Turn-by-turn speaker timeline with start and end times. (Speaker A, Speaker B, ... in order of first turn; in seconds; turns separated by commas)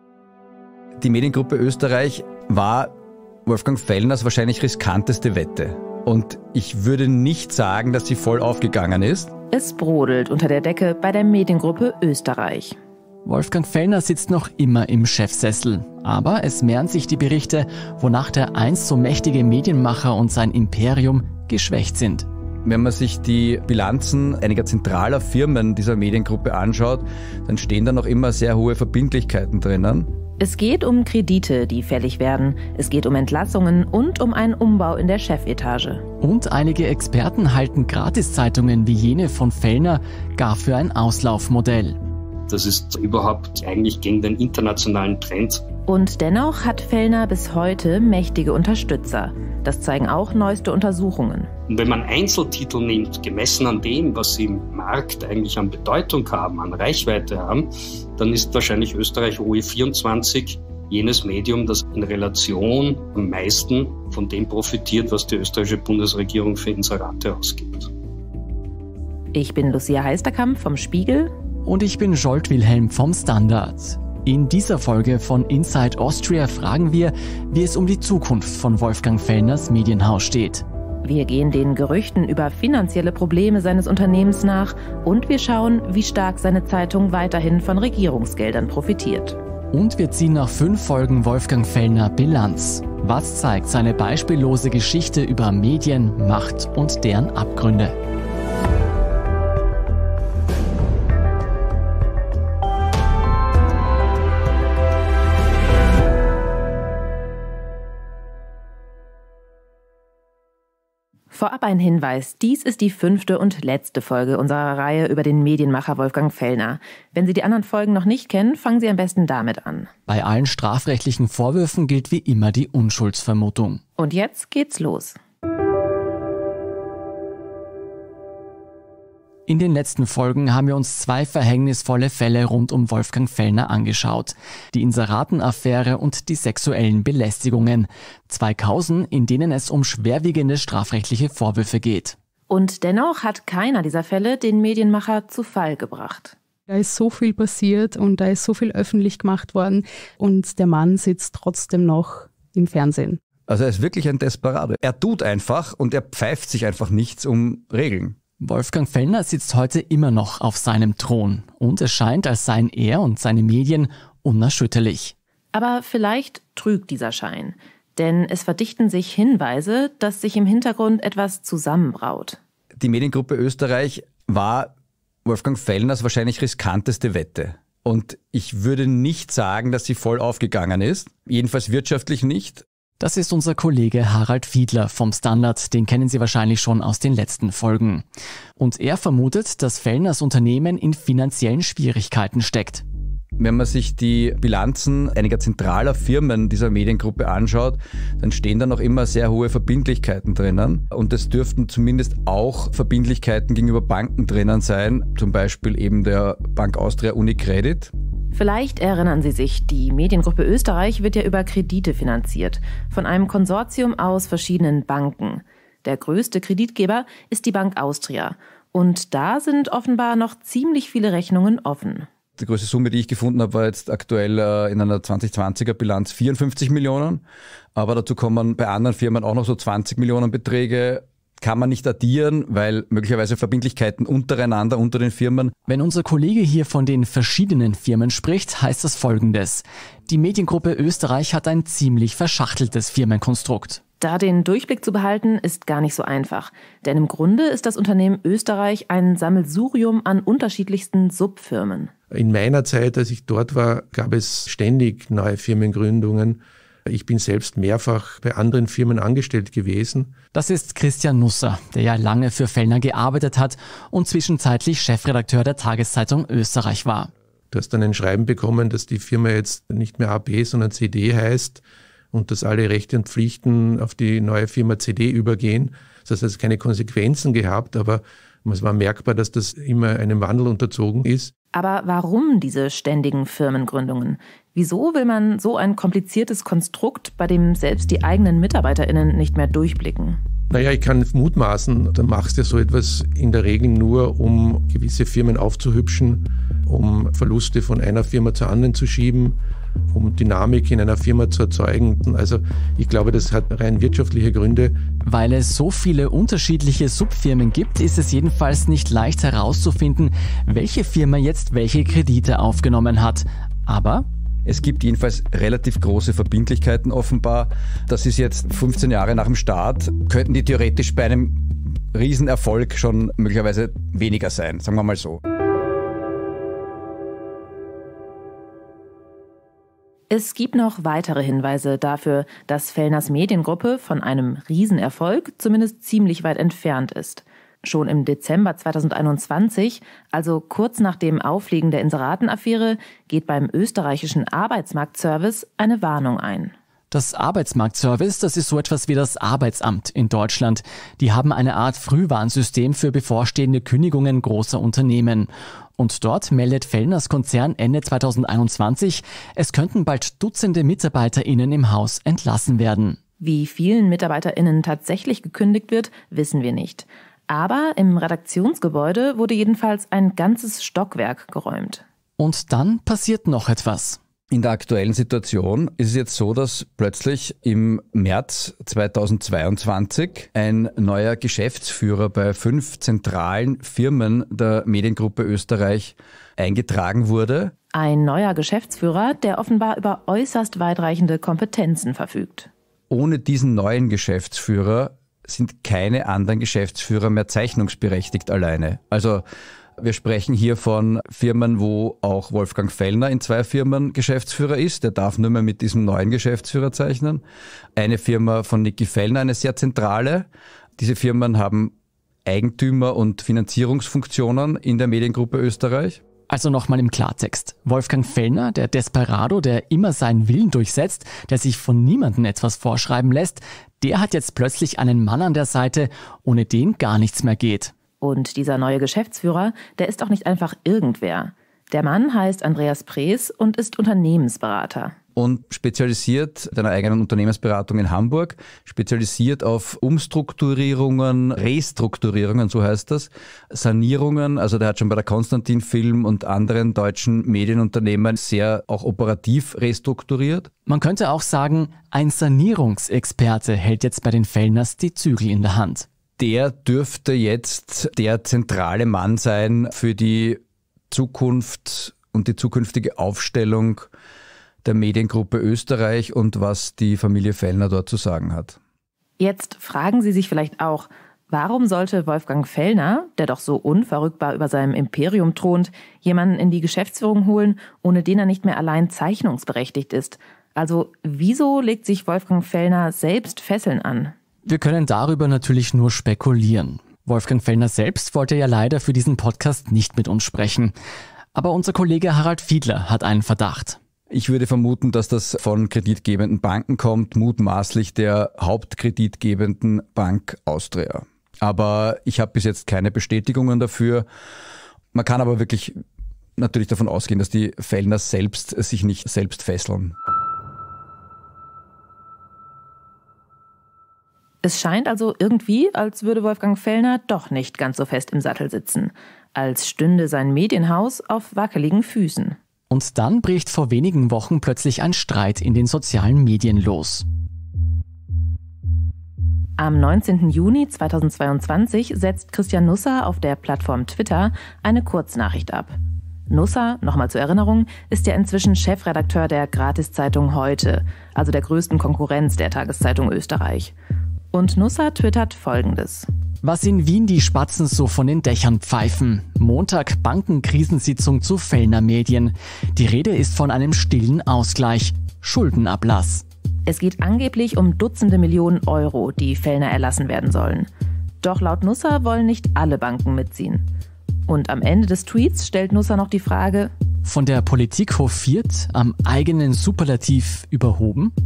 Speaker A: 1.0-2.9, Speaker A: 3.4-9.3, Speaker B: 9.5-12.8, Speaker C: 13.2-22.3, Speaker A: 22.6-30.1, Speaker B: 30.4-36.0, Speaker C: 36.2-42.0, Speaker D: 42.5-45.6, Speaker B: 45.9-51.5, Speaker D: 51.7-67.9, Speaker B: 69.3-71.3, Speaker C: 71.7-80.6, Speaker B: 81.0-89.4, Speaker C: 89.7-97.9, Speaker B: 111.3-119.9, Speaker C: 120.1-123.8, Speaker B: 124.0-125.2, Speaker C: 129.5-142.2, Speaker B: 142.5-146.3, Speaker E: 146.7-153.2, Speaker A: 153.5-158.2, Speaker C: 158.4-165.1, Speaker B: 165.5-172.4, Speaker A: 172.8-174.7, Speaker A: 175.2-182.6, Speaker C: 183.0-188.0, Speaker C: 188.6-192.8, Speaker A: 193.4-207.9, Speaker B: 208.3-222.1, Speaker A: 222.4-227.2, Speaker A: 227.7-235.5, Speaker C: 235.7-243.8, Speaker B: 244.0-251.9, Speaker F: 252.1-260.1, Speaker C: 260.3-267.1, Speaker F: 267.5-281.3, Speaker B: 281.5-290.2, Speaker F: 290.5-299.4, Speaker F: 299.9-304.7, Speaker C: 305.0-314.0, Speaker A: 314.4-325.2, Speaker B: 330.1-346.5, Speaker C: 346.9-363.0, Speaker B: 363.2-371.8, Speaker C: 372.2-374.0, Speaker A: 374.3-387.5, Speaker B: 387.7-392.5, Speaker A: 392.9-399.2, Speaker A: 399.8-407.2, Speaker A: 407.8-411.7, Speaker A: 412.2-416.0, Speaker C: 416.3-427.7, Speaker B: 428.0-434.9, Speaker A: 435.1-450.5, Speaker C: 450.6-455.9, Speaker A: 456.2-463.9, Speaker A: 464.6-468.6, Speaker B: 469.2-484.1, Speaker C: 484.4-490.7, Speaker C: 491.3-493.8, Speaker A: 494.1-504.1, Speaker A: 504.9-505.8, Speaker A: 506.4-509.9, Speaker B: 514.4-522.4, Speaker C: 522.7-527.0, Speaker B: 529.6-535.7, Speaker B: 536.3-543.7, Speaker B: 544.3-546.1, Speaker C: 546.4-556.2, Speaker B: 556.6-560.7, Speaker B: 561.2-563.6, Speaker B: 564.3-566.7, Speaker C: 567.0-571.1